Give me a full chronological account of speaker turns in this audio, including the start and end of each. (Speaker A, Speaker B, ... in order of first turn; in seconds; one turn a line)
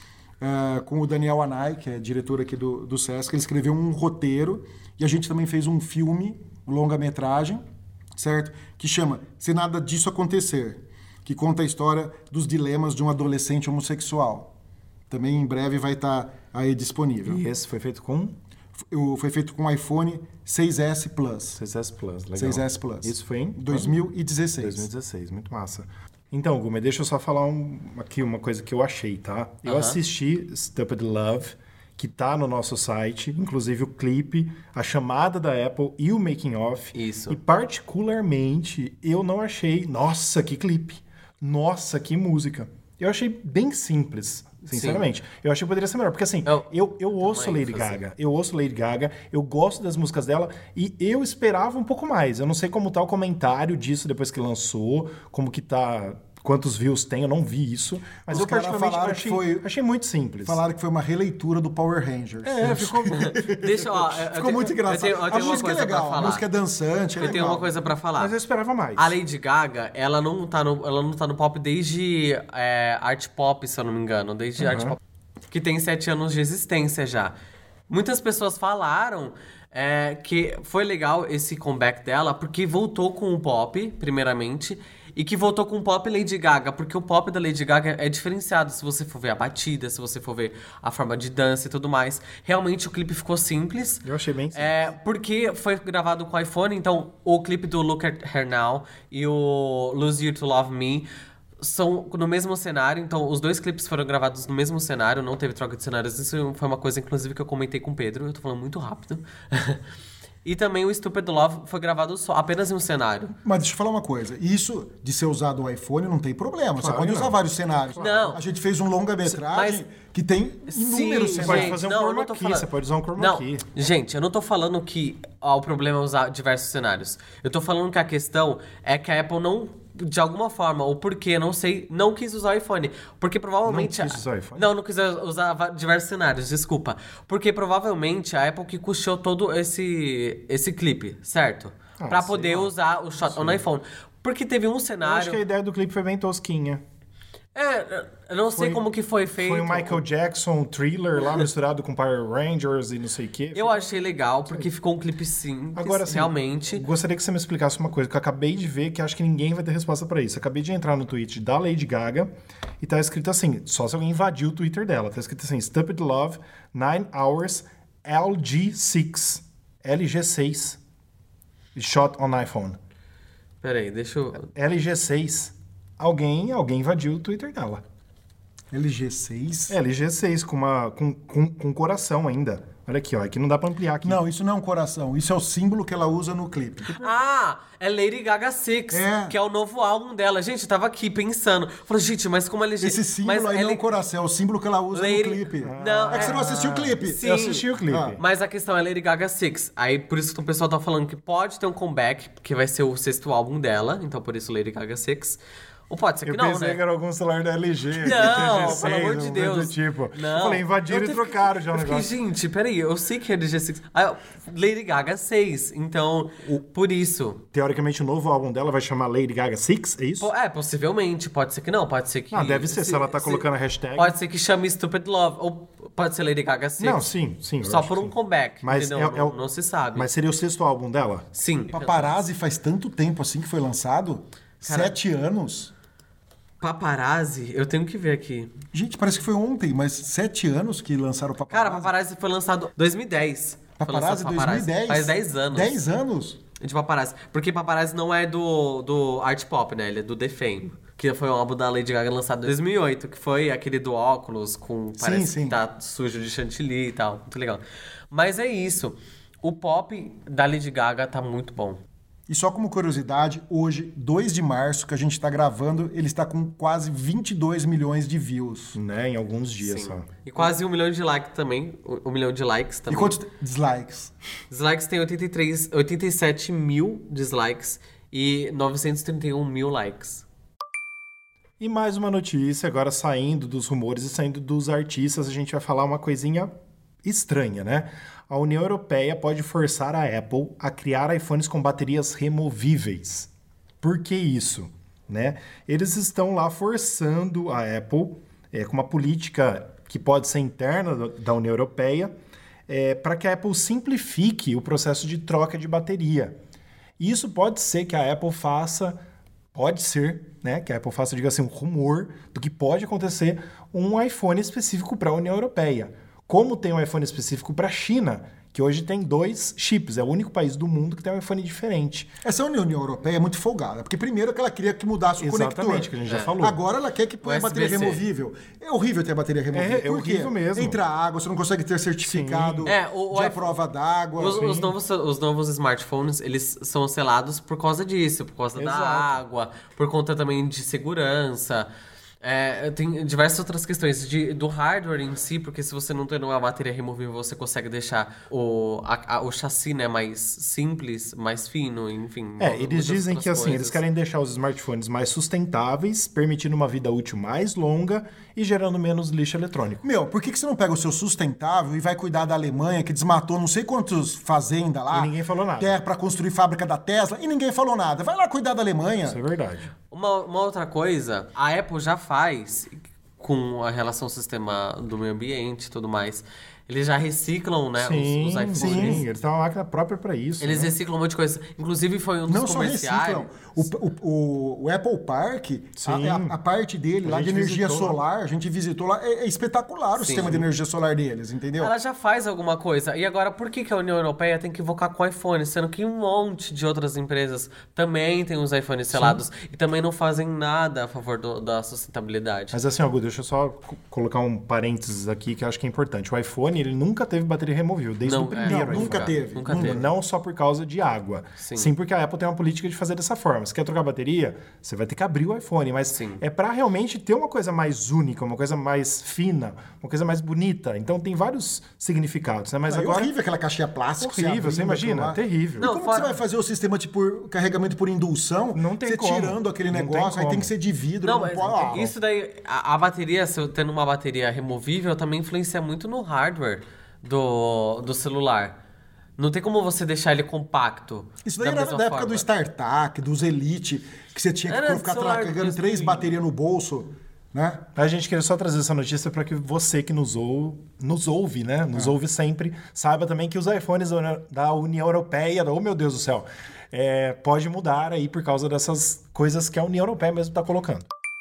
Speaker A: 0.4-7.6
Speaker A: 8.2-14.5
Speaker A: 15.1-17.4
Speaker B: 17.2-18.4
Speaker A: 18.9-21.6
Speaker B: 21.6-23.9
Speaker A: 22.4-24.9
Speaker B: 24.6-60.6
Speaker C: 29.7-30.0
Speaker C: 36.9-37.4
Speaker C: 44.7-45.1
Speaker C: 46.5-48.0
Speaker A: 58.3-59.7
Speaker A: 60.5-67.7
Speaker B: 62.4-63.4
Speaker C: 63.1-66.5
Speaker C: 67.2-68.3
Speaker B: 68.2-69.2
Speaker C: 69.0-75.0
Speaker B: 74.6-75.0
Speaker C: 75.5-77.3
Speaker C: 77.9-101.1
Speaker B: 94.0-94.7
Speaker C: 101.6-109.8
Speaker C: 110.5-113.3
Speaker A: 113.4-121.8
Speaker B: 116.8-117.4
Speaker C: 118.0-118.4
Speaker C: 119.5-119.8
Speaker C: 120.7-145.4
Speaker B: 121.4-123.7
Speaker B: 133.6-134.7
Speaker B: 142.0-143.6
Speaker B: 145.0-146.8
Speaker C: 147.6-150.0
Speaker B: 148.5-148.8
Speaker B: 149.4-153.9
Speaker C: 153.5-156.8
Speaker B: 155.8-162.3
Speaker B: 162.8-170.8
Speaker B: 171.8-172.8
Speaker C: 173.6-174.5
Speaker B: 174.5-177.8
Speaker A: 178.7-179.8
Speaker B: 179.7-184.2
Speaker A: 184.0-186.9
Speaker B: 186.9-187.1
Speaker C: 186.9-193.8
Speaker A: 188.9-189.3
Speaker A: 192.8-197.2
Speaker C: 194.9-196.4
Speaker B: 195.6-198.2
Speaker C: 197.0-197.7
Speaker A: 197.9-198.2
Speaker C: 198.2-206.8
Speaker B: 206.2-212.1
Speaker A: 207.9-209.5
Speaker C: 208.1-217.4
Speaker B: 217.5-220.3
Speaker C: 220.2-227.1
Speaker B: 222.3-224.2
Speaker B: 226.8-229.4
Speaker C: 227.6-230.1
Speaker B: 229.9-231.3
Speaker C: 231.3-232.2
Speaker A: 231.7-235.7
Speaker C: 234.6-235.0
Speaker C: 236.6-238.5
Speaker A: 238.7-241.9
Speaker C: 241.5-245.8
Speaker A: 243.8-246.4
Speaker C: 246.6-261.8
Speaker A: 255.0-255.6
Speaker A: 262.3-268.8
Speaker B: 268.7-270.1
Speaker C: 269.6-273.2
Speaker A: 272.9-274.1
Speaker C: 274.5-280.2
Speaker B: 281.6-286.5
Speaker B: 287.0-293.3
Speaker B: 293.8-302.1
Speaker B: 302.7-306.4
Speaker B: 307.0-309.0
Speaker B: 309.5-322.1
Speaker A: 322.2-334.5
Speaker B: 325.2-326.6
Speaker C: 327.2-328.0
Speaker B: 329.5-330.8
Speaker B: 332.0-332.7
Speaker C: 332.7-333.5
Speaker C: 334.2-341.7
Speaker B: 334.3-334.7
Speaker B: 338.6-339.2
Speaker C: 342.2-353.8
Speaker B: 352.4-359.8
Speaker A: 359.8-369.2
Speaker B: 364.9-365.8
Speaker B: 369.1-369.7
Speaker C: 369.9-379.0
Speaker B: 377.8-380.7
Speaker A: 378.5-379.0
Speaker C: 380.4-383.3
Speaker A: 382.3-391.7
Speaker B: 385.8-386.4
Speaker B: 387.0-388.0
Speaker C: 390.0-390.4
Speaker C: 391.6-402.6
Speaker B: 398.9-399.2
Speaker B: 402.5-423.1
Speaker C: 408.0-409.9
Speaker A: 408.4-409.8
Speaker C: 411.4-411.7
Speaker C: 416.0-416.2
Speaker A: 422.7-431.9
Speaker B: 424.0-425.7
Speaker C: 425.6-426.2
Speaker B: 428.6-430.5
Speaker C: 431.0-438.6
Speaker C: 439.2-442.2
Speaker A: 441.2-447.7
Speaker C: 444.5-446.2
Speaker B: 447.8-460.9